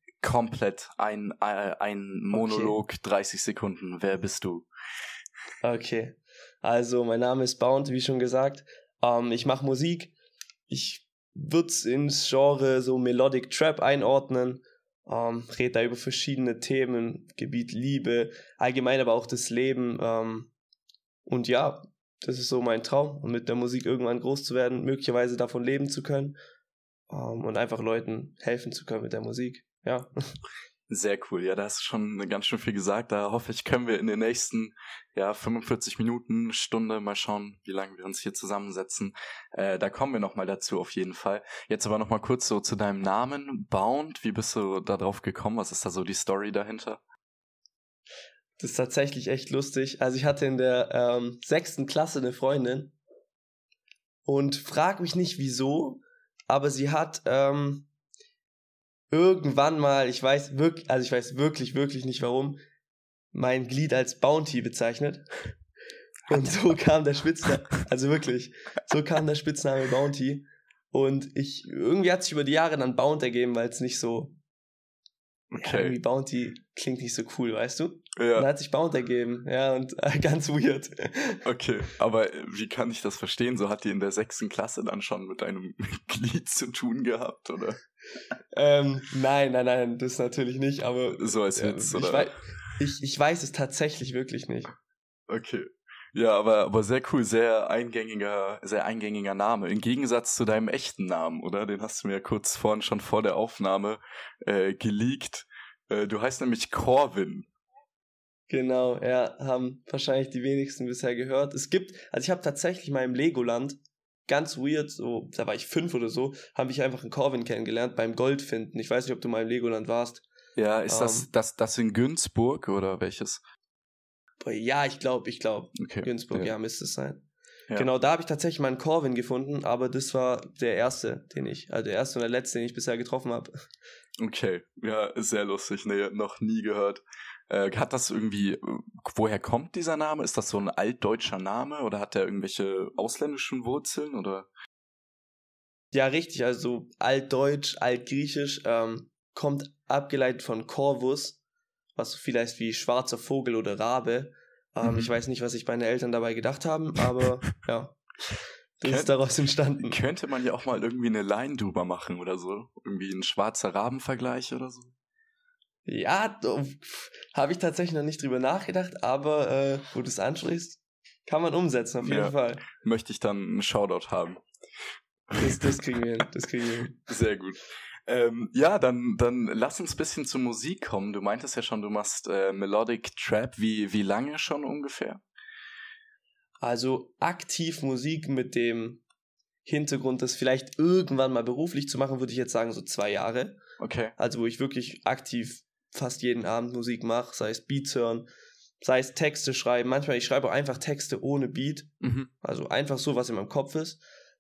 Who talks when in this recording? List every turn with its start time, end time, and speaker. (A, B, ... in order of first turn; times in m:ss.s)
0:00.2-0:04.7 A
0:02.3-0:02.8 B
0:05.6-0:10.1 B
0:10.7-0:20.5 B
0:21.3-0:26.4 B
0:27.1-0:30.3 B
0:30.9-0:47.0 A
0:48.6-0:53.0 B
0:54.3-0:57.9 B
0:59.1-1:02.6 B
1:03.3-1:05.5 B
1:06.3-1:14.4 B
1:06.3-1:06.6 A
1:15.5-1:16.0 A
1:15.5-1:21.4 B
1:18.2-1:18.5 A
1:21.4-1:27.8 A
1:28.5-1:34.7 B
1:31.1-1:32.3 A
1:35.3-1:47.5 A
1:48.5-2:00.2 B
2:00.5-2:03.4 A
2:00.9-2:01.3 B
2:04.4-2:13.5 B
2:05.8-2:06.5 A
2:14.2-2:24.5 A
2:25.9-2:31.4 B
2:32.0-2:38.0 B
2:34.8-2:35.1 A
2:38.8-2:40.0 B
2:38.8-2:39.2 A
2:39.8-2:44.9 A
2:45.8-2:52.6 B
2:52.0-2:54.4 A
2:55.3-2:55.8 A
2:55.4-2:57.1 B
2:57.1-3:05.2 A
3:06.6-3:09.0 B
3:09.6-3:13.6 B
3:13.8-3:14.1 A
3:14.2-3:18.3 B
3:18.8-3:24.0 B
3:22.0-3:22.3 A